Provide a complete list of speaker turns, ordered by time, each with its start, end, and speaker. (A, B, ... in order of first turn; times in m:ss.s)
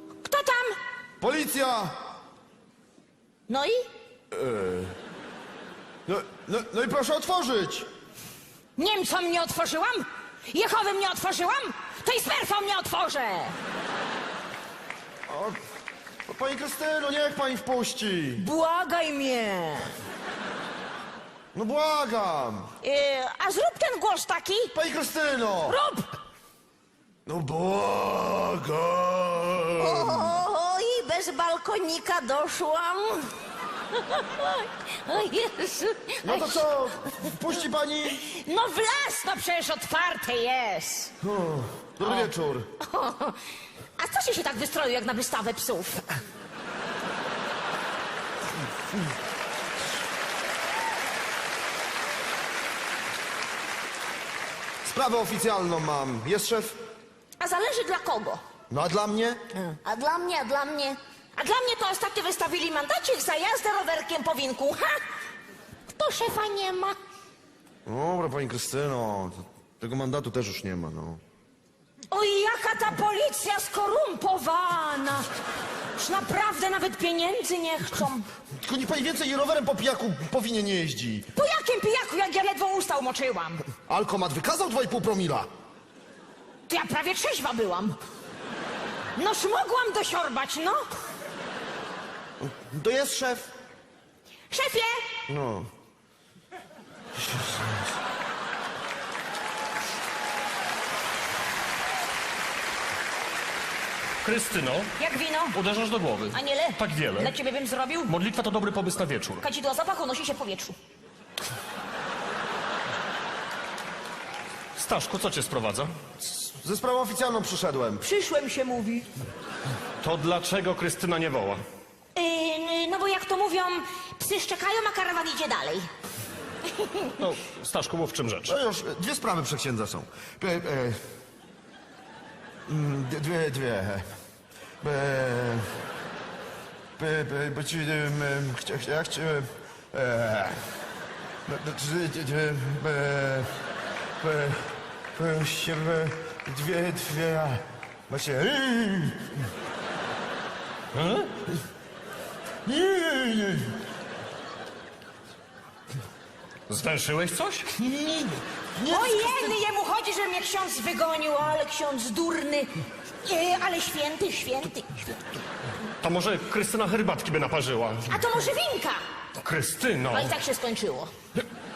0:00.2-0:00.8 A
0:01.2-0:01.9 B
0:03.5-0:03.8 A
0:04.3-0:04.9 B
0:06.0-0:07.9 B
0:08.8-0:13.6 A
0:15.3-0:15.6 B
0:16.3-0:18.4 B
0:18.4-0:19.9 A
0:21.5-0:22.7 B
0:22.8-0:24.7 A
0:24.7-0:25.8 B
0:25.7-0:26.1 A
0:27.2-0:30.3 B
0:29.8-0:33.3 A
0:33.9-0:36.6 A
0:36.2-0:38.2 B
0:38.1-0:41.1 A
0:41.2-0:42.7 B
0:42.8-0:43.4 A
0:44.0-0:46.1 A
0:54.8-0:56.8 B
0:57.4-0:58.4 A
0:58.7-0:59.4 B
0:59.5-1:05.0 A
1:06.0-1:07.0 A
1:07.8-1:11.2 B
1:12.1-1:15.2 A
1:16.0-1:18.3 A
1:18.6-1:21.2 B
1:21.3-1:23.6 A
1:23.9-1:25.5 B
1:26.7-1:28.0 A
1:29.2-1:30.8 A
1:32.4-1:33.5 B
1:34.5-1:35.1 A
1:35.3-1:35.7 B
1:44.2-1:45.0 C
1:45.0-1:45.6 A
1:45.5-1:47.3 C
1:46.3-1:48.1 A
1:48.0-1:49.4 C
1:49.4-1:50.7 A
1:54.8-1:55.9 C
1:56.5-1:58.0 B
1:58.0-1:59.1 A
2:00.0-2:01.6 C
2:02.1-2:05.9 A
2:07.2-2:08.6 C
2:08.4-2:11.0 B
2:12.7-2:14.0 B
2:14.8-2:15.7 B
2:17.0-2:20.6 B
2:21.4-2:23.5 B
2:24.2-2:29.3 B
2:30.9-2:31.3 C
2:32.6-2:33.8 B
2:36.7-2:37.7 C
2:37.8-2:39.5 B
2:38.8-2:42.7 A
2:43.2-2:45.1 A
2:46.0-2:48.3 C
2:48.1-2:49.0 A
2:49.4-2:50.3 C
2:50.1-2:51.1 A